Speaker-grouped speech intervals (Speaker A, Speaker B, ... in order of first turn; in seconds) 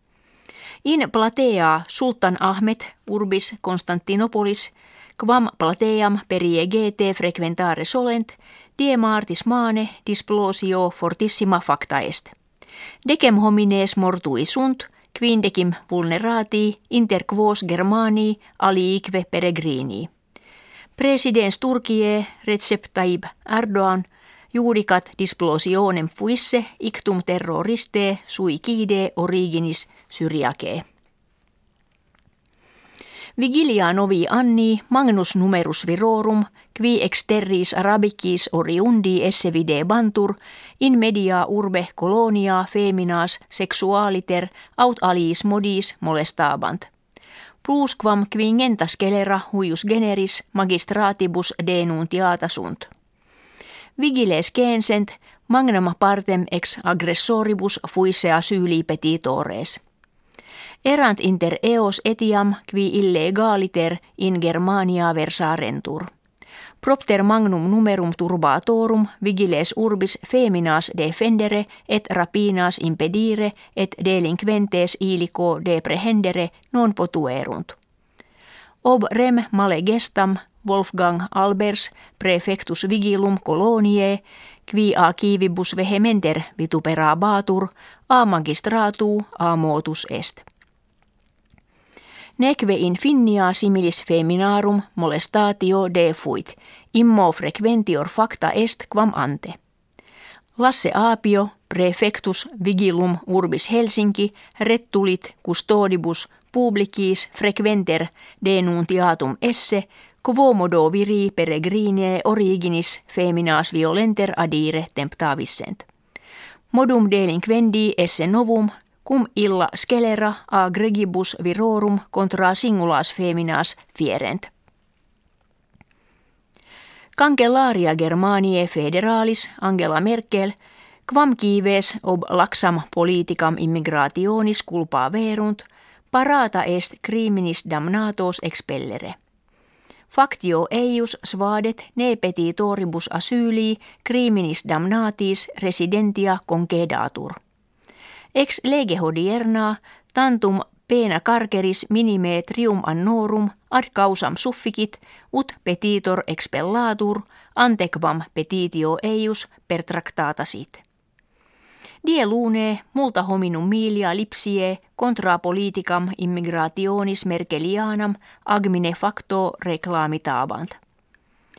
Speaker A: 0.8-12.3, 13.1-20.1, 21.0-30.8, 33.4-46.9, 47.6-52.9, 54.0-59.8, 60.9-66.1, 66.8-77.8, 78.8-90.4, 92.4-99.6, 100.6-115.8, 116.7-124.5, 127.2-130.6, 131.1-139.2, 140.1-147.4, 148.3-160.8, 162.0-170.8